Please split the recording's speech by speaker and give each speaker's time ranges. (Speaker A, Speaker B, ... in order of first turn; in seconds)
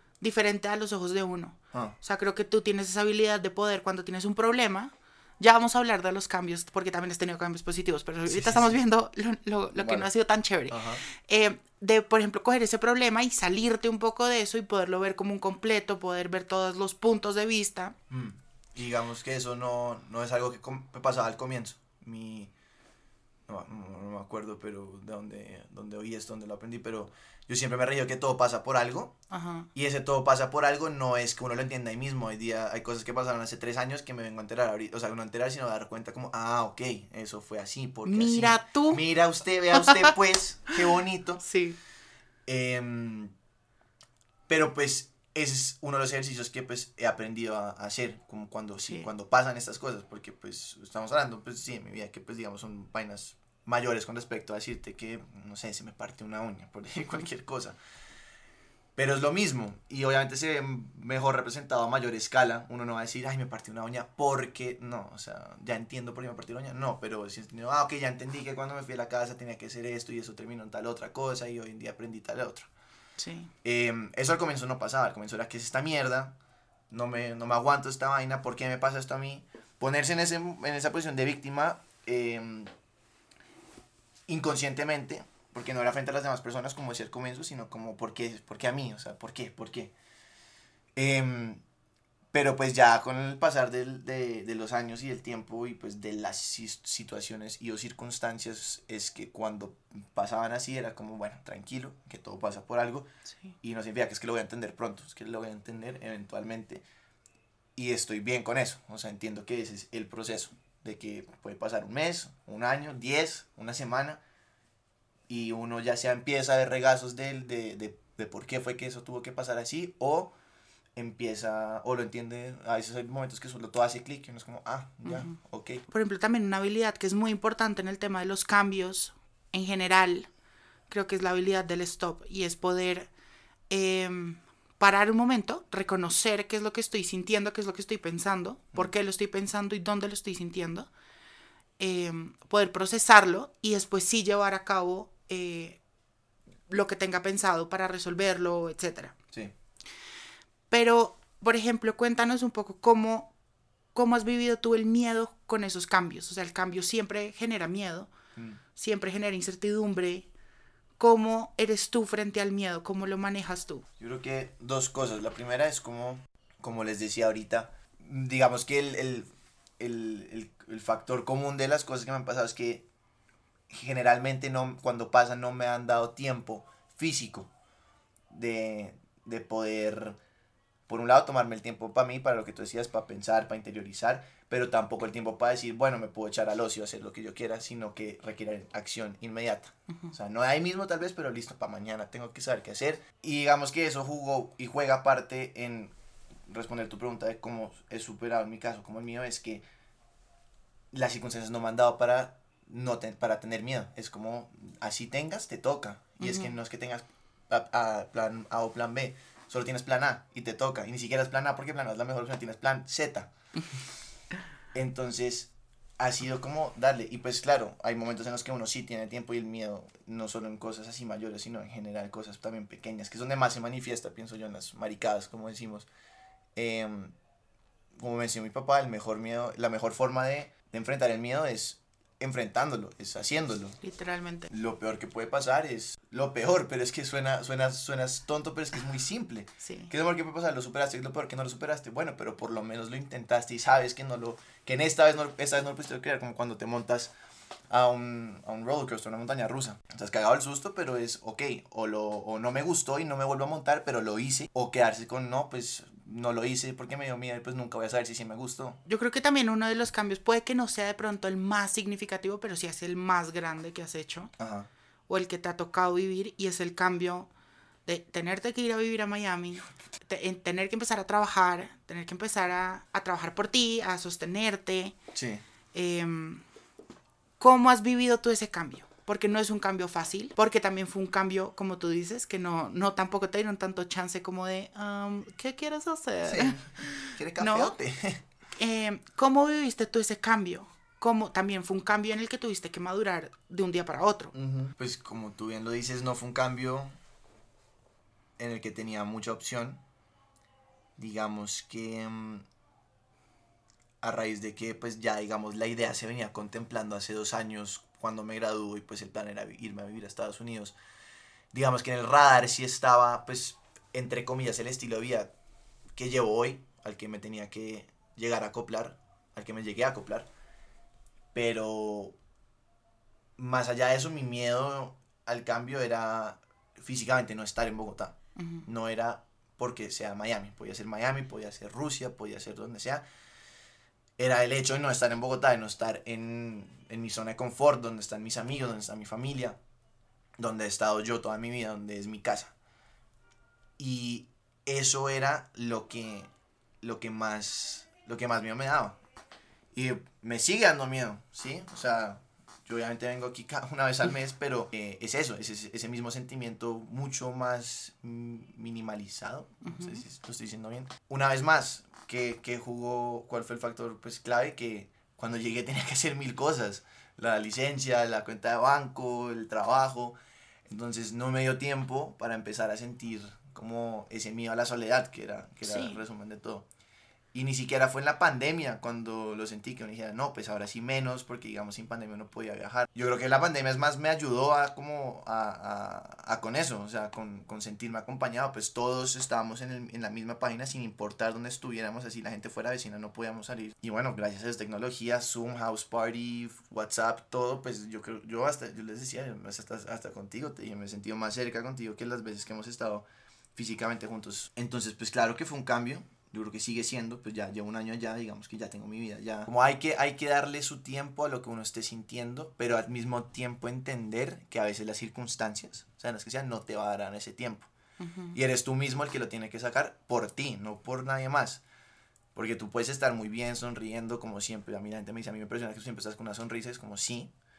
Speaker A: 0.2-17.9, 29.3-29.7, 38.0-39.0, 39.8-40.1, 41.4-41.8, 73.2-73.5, 103.3-103.5, 125.0-125.3, 125.9-130.3, 130.9-133.1, 133.7-140.9, 141.8-145.8, 146.7-149.1, 150.7-153.3, 153.9-158.1, 158.7-160.3, 161.0-163.8, 189.9-190.1, 206.2-206.5, 233.8-234.5, 239.6-239.9, 258.9-264.3, 265.1-267.3, 267.9-275.0, 275.7-276.4, 277.4-287.8, 288.6-294.3, 328.4-328.6, 359.6-360.0, 375.6-376.0, 418.0-418.4
Speaker B: 8.2-8.8, 9.7-10.1, 10.7-11.0, 18.1-22.5, 23.5-29.2, 29.7-41.4, 42.5-43.3, 44.5-57.8, 59.0-72.7, 73.6-76.3, 76.9-82.7, 84.3-89.9, 91.0-91.6, 92.3-103.1, 103.6-106.8, 107.8-114.2, 115.3-120.3, 121.0-125.8, 158.3-158.6, 164.0-169.3, 169.8-172.9, 173.7-177.5, 178.3-180.2, 180.9-195.9, 196.5-199.6, 200.9-213.3, 214.7-225.9, 226.5-227.1, 227.9-233.8, 234.5-247.1, 247.7-258.8, 264.4-264.7, 275.1-275.4, 286.2-288.2, 294.3-296.9, 298.4-299.8, 301.0-302.4, 304.0-310.8, 311.5-315.3, 315.9-320.3, 321.3-322.2, 323.4-333.0, 334.2-339.6, 340.4-342.5, 343.8-346.3, 346.8-349.0, 349.7-376.7, 377.3-417.7, 418.3-421.6, 422.3-427.3